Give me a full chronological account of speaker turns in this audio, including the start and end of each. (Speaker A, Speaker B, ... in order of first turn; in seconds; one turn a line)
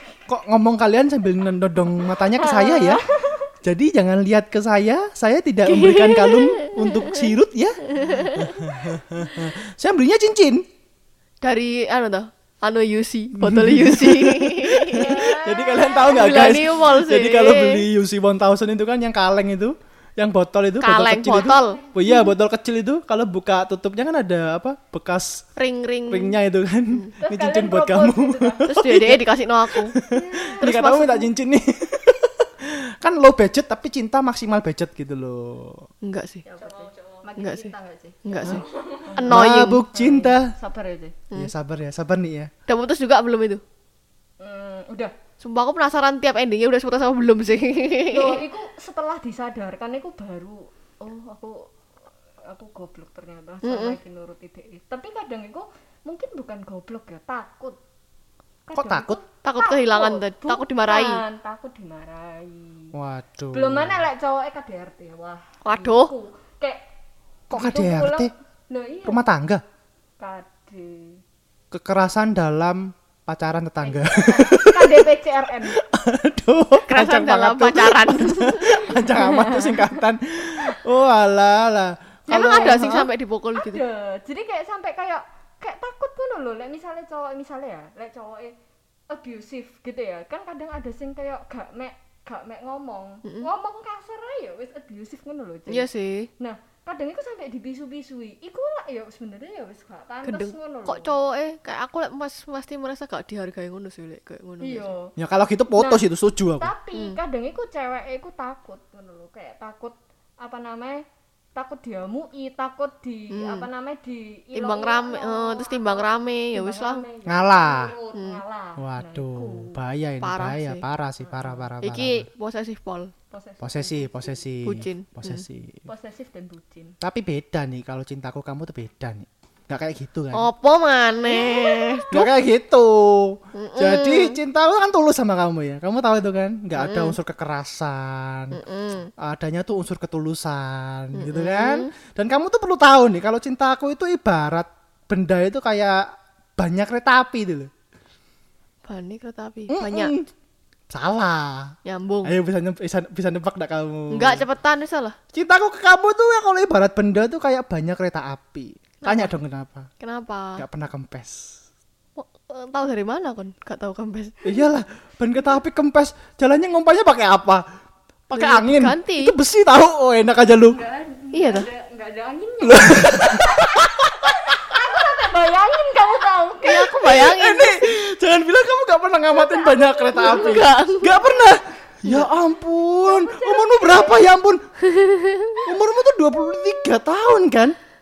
Speaker A: 0.3-3.0
Speaker B: 2.0-3.5
Speaker A: 3.6-10.6
Speaker C: 5.6-7.3
Speaker C: 7.9-8.5
Speaker C: 11.4-17.9
Speaker A: 13.4-25.4
Speaker B: 14.9-16.3
Speaker C: 20.8-21.8
Speaker B: 21.5-22.2
Speaker C: 25.6-26.4
Speaker A: 26.1-35.9
Speaker B: 27.2-28.8
Speaker C: 28.7-29.9
Speaker B: 30.0-30.7
Speaker C: 30.6-31.3
Speaker C: 36.0-36.4
Speaker B: 36.5-39.3
Speaker C: 37.4-37.7
Speaker C: 38.2-39.8
Speaker A: 39.2-40.5
Speaker B: 39.9-41.1
Speaker A: 41.3-42.5
Speaker C: 42.7-43.6
Speaker B: 44.4-45.1
Speaker C: 45.4-48.4
Speaker B: 48.1-51.7
Speaker B: 52.4-57.8
Speaker C: 53.6-54.0
Speaker B: 58.7-62.9
Speaker A: 58.7-59.2
Speaker C: 59.4-61.2
Speaker A: 62.9-64.0
Speaker B: 63.5-66.8
Speaker C: 65.6-66.1
Speaker A: 67.5-68.3
Speaker B: 67.5-69.2
Speaker A: 69.0-69.6
Speaker B: 70.2-71.2
Speaker A: 71.7-75.1
Speaker B: 73.8-75.8
Speaker A: 75.7-83.1
Speaker C: 76.9-78.8
Speaker B: 78.9-79.9
Speaker B: 82.3-83.0
Speaker C: 82.3-83.8
Speaker B: 83.5-88.5
Speaker B: 89.1-101.1
Speaker C: 93.2-93.5
Speaker C: 95.7-96.3
Speaker C: 100.2-104.9
Speaker B: 104.6-105.1
Speaker A: 105.2-106.7
Speaker B: 105.7-106.0
Speaker B: 106.6-111.0
Speaker C: 106.9-107.2
Speaker B: 111.5-119.8
Speaker C: 113.3-113.7
Speaker C: 114.5-117.0
Speaker A: 117.2-117.9
Speaker C: 118.1-118.4
Speaker A: 118.8-122.3
Speaker C: 120.2-120.8
Speaker B: 121.2-121.7
Speaker C: 121.8-123.1
Speaker B: 123.3-124.4
Speaker A: 123.6-125.8
Speaker C: 124.6-125.4
Speaker B: 125.9-127.0
Speaker A: 127.0-130.5
Speaker C: 130.3-132.3
Speaker B: 131.2-132.1
Speaker A: 132.1-138.6
Speaker C: 133.5-134.4
Speaker C: 136.8-137.2
Speaker C: 138.5-139.1
Speaker A: 139.2-146.1
Speaker C: 141.1-141.9
Speaker A: 146.6-147.7
Speaker C: 148.8-150.1
Speaker A: 149.7-150.3
Speaker A: 150.9-154.4
Speaker C: 151.8-152.3
Speaker C: 154.1-155.2
Speaker A: 155.3-159.9
Speaker C: 159.0-159.3
Speaker C: 160.0-160.6
Speaker A: 160.6-161.6
Speaker C: 162.2-164.3
Speaker A: 164.4-167.6
Speaker A: 168.3-170.8
Speaker C: 168.3-169.3
Speaker B: 170.7-177.1
Speaker C: 171.3-171.7
Speaker A: 172.6-174.8
Speaker C: 176.6-177.8
Speaker A: 177.0-184.6
Speaker B: 179.3-181.4
Speaker C: 180.1-181.2
Speaker C: 182.0-182.3
Speaker B: 183.0-184.3
Speaker C: 184.8-185.6
Speaker A: 185.6-187.7